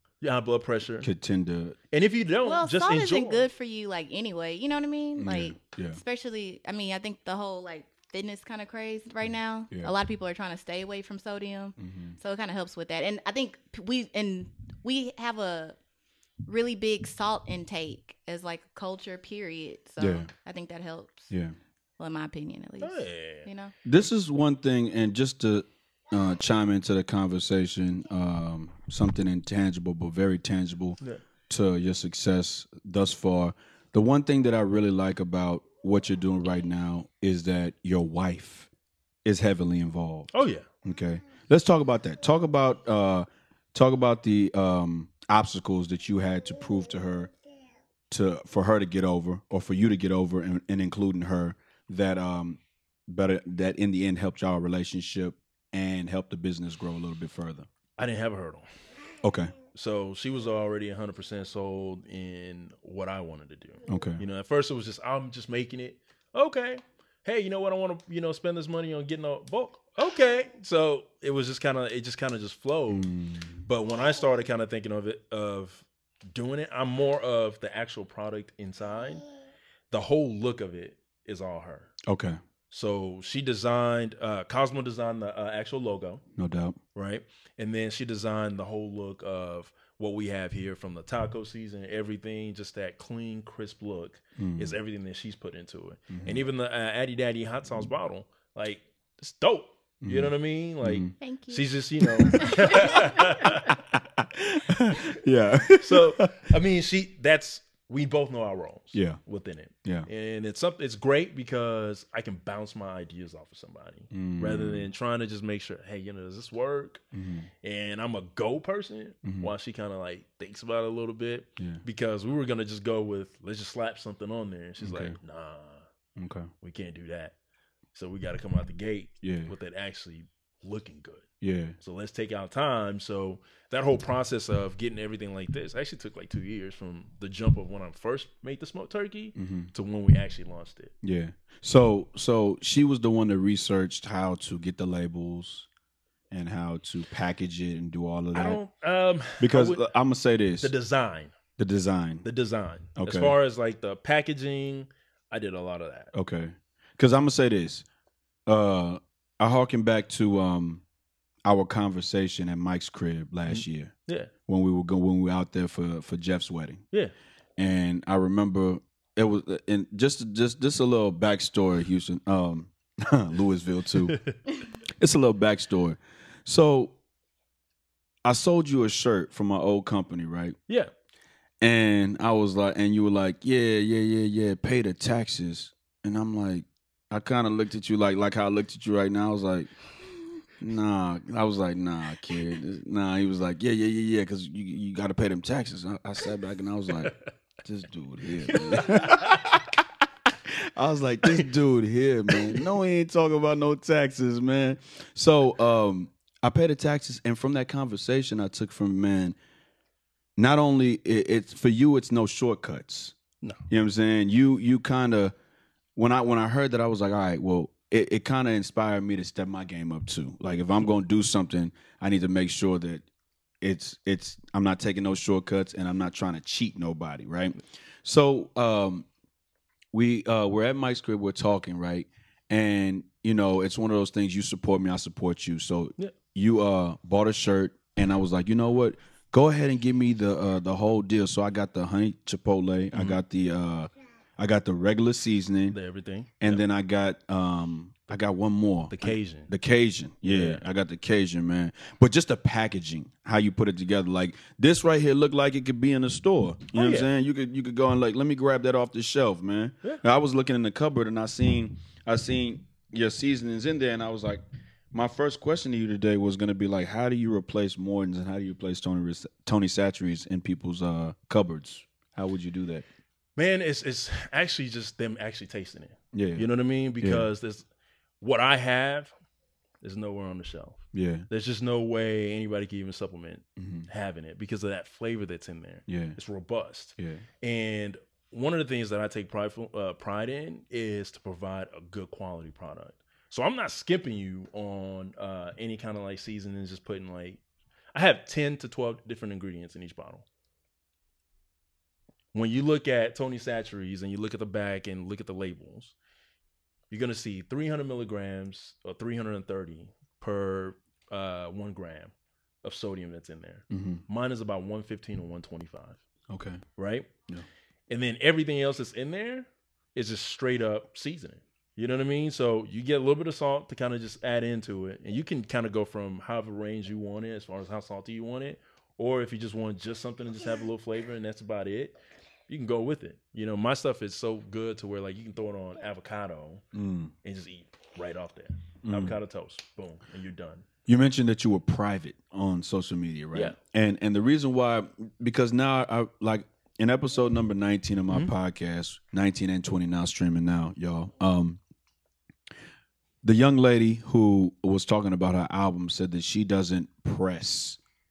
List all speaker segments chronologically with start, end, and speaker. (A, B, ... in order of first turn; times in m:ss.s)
0:00.2-0:01.1 A
0:01.0-0:01.8 B
0:01.9-0:03.5 A
0:02.4-0:15.8 C
0:05.2-0:06.0 B
0:11.8-0:12.2 B
0:16.4-0:21.3 C
0:20.0-0:20.3 B
0:22.0-0:23.7 C
0:22.8-0:23.5 A
0:23.8-0:38.7 B
0:39.2-0:40.3 B
0:40.3-0:40.7 A
0:40.8-0:47.3 B
0:48.1-0:57.7 B
0:58.0-0:58.7 A
0:59.2-0:59.5 B
0:59.7-1:13.1 A
1:03.9-1:04.2 B
1:12.9-1:13.6 B
1:13.6-1:19.2 A
1:19.9-1:21.9 A
1:22.0-1:22.4 B
1:22.7-1:26.2 A
1:26.4-1:26.8 B
1:26.9-1:43.7 A
1:34.4-1:34.8 B
1:36.1-1:36.4 B
1:40.0-1:41.1 B
1:41.2-1:41.7 C
1:42.0-1:46.4 B
1:42.3-1:43.2 C
1:45.8-1:57.0 A
1:48.9-1:49.2 B
1:54.1-1:54.9 B
1:57.1-1:57.5 B
1:57.6-2:05.9 A
1:59.2-1:59.5 B
2:01.6-2:01.8 B
2:04.8-2:05.2 B
2:06.2-2:06.5 B
2:06.6-2:07.3 A
2:07.9-2:11.3 A
2:09.2-2:09.5 B
2:11.4-2:11.8 B
2:11.8-2:20.9 A
2:19.4-2:19.7 B
2:21.0-2:25.7 B
2:26.3-2:28.6 B
2:28.3-2:29.9 A
2:29.4-2:30.7 B
2:30.6-2:31.3 A
2:31.6-2:32.2 B
2:32.2-2:36.1 A
2:33.0-2:33.4 B
2:36.1-2:37.9 B
2:38.5-2:40.8 B
2:41.4-2:43.9 B
2:43.5-2:44.3 A
2:44.5-2:46.8 B
2:47.6-2:54.2 B
2:54.1-2:54.4 A
2:55.0-2:57.0 B
2:58.2-3:00.6 B
3:01.6-3:09.7 B
3:10.6-3:19.8 B
3:18.4-3:19.4 A
3:20.4-3:29.4 B
3:22.3-3:22.6 A
3:30.4-3:33.1 B
3:33.7-3:35.3 B
3:36.0-3:43.0 B
3:43.6-3:49.1 B
3:49.9-4:05.8 B
4:02.9-4:03.2 A
4:05.7-4:06.6 A
4:06.4-4:32.9 B
4:08.9-4:09.5 A
4:10.2-4:10.6 A
4:16.7-4:17.1 A
4:33.4-4:37.6 A
4:36.1-4:36.5 B
4:37.0-4:37.3 B
4:38.2-4:39.1 A
4:39.8-4:57.4 A
4:40.9-4:41.3 B
4:43.6-4:43.9 B
4:45.9-4:46.2 B
4:47.0-4:47.2 B
4:57.9-5:00.2 A
5:02.3-5:05.9 A
5:06.9-5:12.1 A
5:12.6-5:16.0 A
5:13.7-5:14.0 B
5:16.3-5:16.6 B
5:16.8-5:17.1 A
5:17.9-5:32.0 A
5:32.5-5:36.6 A
5:36.7-5:37.1 B
5:37.2-5:40.6 A
5:38.8-5:39.1 B
5:40.9-5:51.6 B
5:53.2-5:57.8 B